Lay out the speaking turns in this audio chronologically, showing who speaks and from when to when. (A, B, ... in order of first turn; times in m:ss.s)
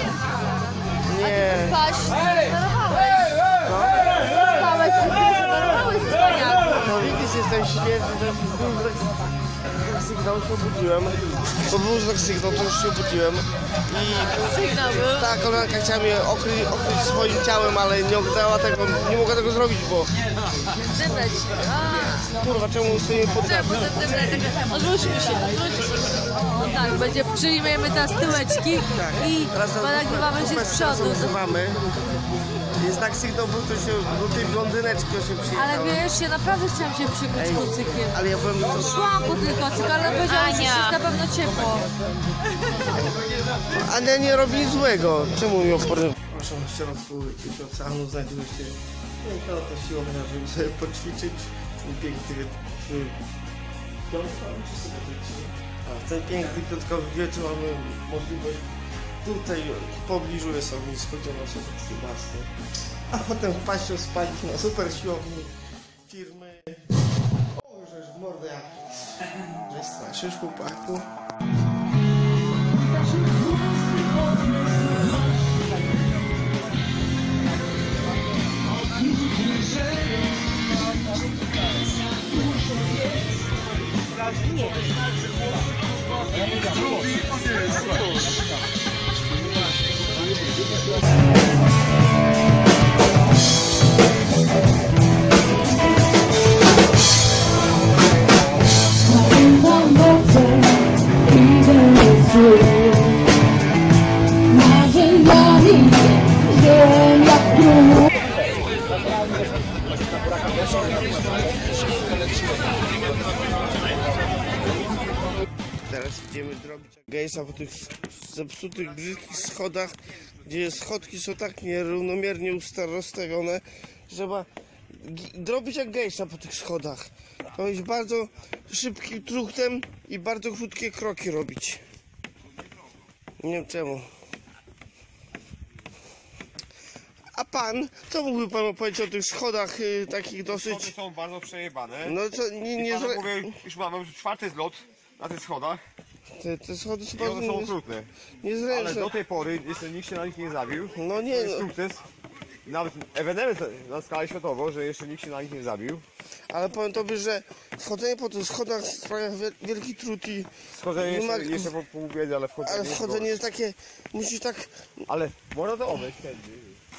0:01.0-0:01.8 A
0:01.2-0:03.4 B
0:03.6-0:04.1 A
0:04.2-0:07.0 B
0:06.7-0:20.1 A
0:14.2-0:15.3 B
0:20.8-0:22.3 B
0:22.2-0:23.8 A
0:23.4-0:31.4 B
0:29.0-0:31.8 A
0:32.7-0:36.1 A
0:35.6-0:38.2 B
0:37.3-0:39.2 A
0:38.7-0:41.9 B
0:43.6-0:53.2 A
0:54.1-0:58.7 A
0:59.2-1:02.5 A
1:03.1-1:05.5 A
1:06.1-1:06.8 A
1:07.5-1:11.1 A
1:39.0-1:43.3 B
1:44.5-1:48.1 B
1:55.9-2:11.8 A
2:13.4-2:14.1 A
2:17.3-2:20.9 A
2:20.5-2:22.2 C
2:22.0-2:23.6 A
2:22.8-2:25.8 C
2:26.3-2:27.8 A
2:27.1-2:28.1 C
2:28.4-2:29.1 A
2:28.7-2:32.0 C
2:30.9-2:31.6 A
2:32.6-2:36.0 C
2:36.5-2:41.7 A
2:40.7-2:43.4 C
2:42.6-2:45.0 A
2:45.1-2:46.8 C